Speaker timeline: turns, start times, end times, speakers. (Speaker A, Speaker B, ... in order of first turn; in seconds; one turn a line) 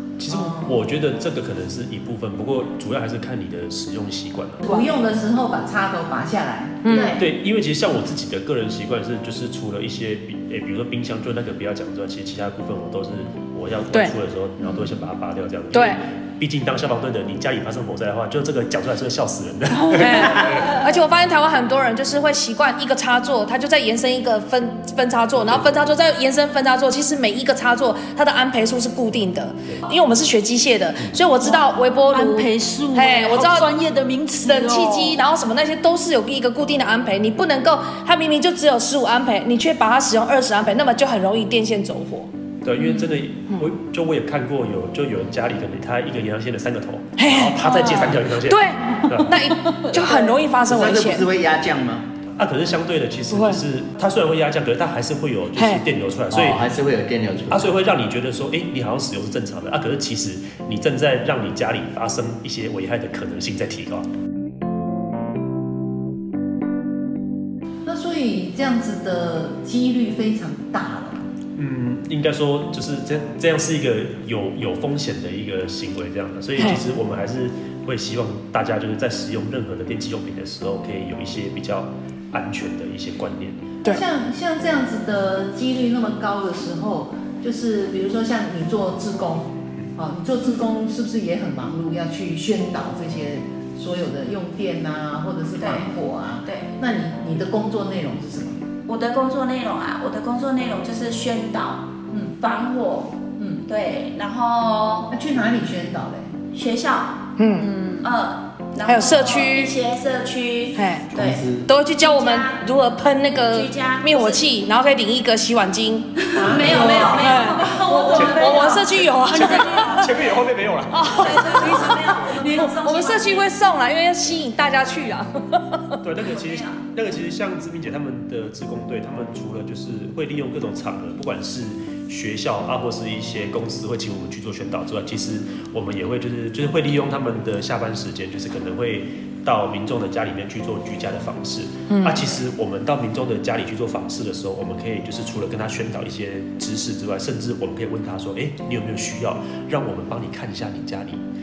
Speaker A: 0.2-4.6
Speaker B: 0.3-0.8
Speaker B: 4.6-7.2
Speaker C: 4.6-4.9
Speaker D: 6.8-7.2
Speaker A: 7.2-20.8
Speaker D: 15.7-16.0
Speaker D: 19.9-33.7
Speaker C: 20.5-20.8
Speaker C: 32.1-35.2
Speaker D: 34.4-42.3
Speaker A: 42.6-49.4
Speaker D: 47.2-51.3
Speaker C: 47.6-48.1
Speaker C: 49.6-50.3
Speaker E: 50.6-52.1
Speaker A: 52.4-56.6
Speaker D: 53.3-53.6
Speaker D: 55.6-55.8
Speaker E: 56.3-57.7
Speaker A: 57.5-64.1
Speaker B: 67.8-71.2
Speaker A: 71.6-83.6
Speaker D: 76.6-76.8
Speaker B: 83.9-98.6
Speaker F: 95.6-95.9
Speaker F: 96.5-96.8
Speaker F: 98.9-101.8
Speaker B: 102.1-102.4
Speaker F: 102.4-105.1
Speaker B: 103.4-103.6
Speaker B: 105.1-106.3
Speaker F: 106.5-107.2
Speaker D: 107.4-107.7
Speaker C: 107.6-108.1
Speaker F: 108.0-111.4
Speaker D: 108.8-109.7
Speaker D: 110.8-111.1
Speaker E: 111.2-111.7
Speaker D: 111.7-120.2
Speaker F: 112.0-112.6
Speaker F: 113.5-114.5
Speaker F: 116.2-120.1
Speaker B: 116.4-117.7
Speaker A: 118.2-121.7
Speaker D: 120.9-126.0
Speaker F: 121.0-123.4
Speaker A: 126.0-151.2
Speaker F: 126.3-126.8
Speaker D: 141.9-142.3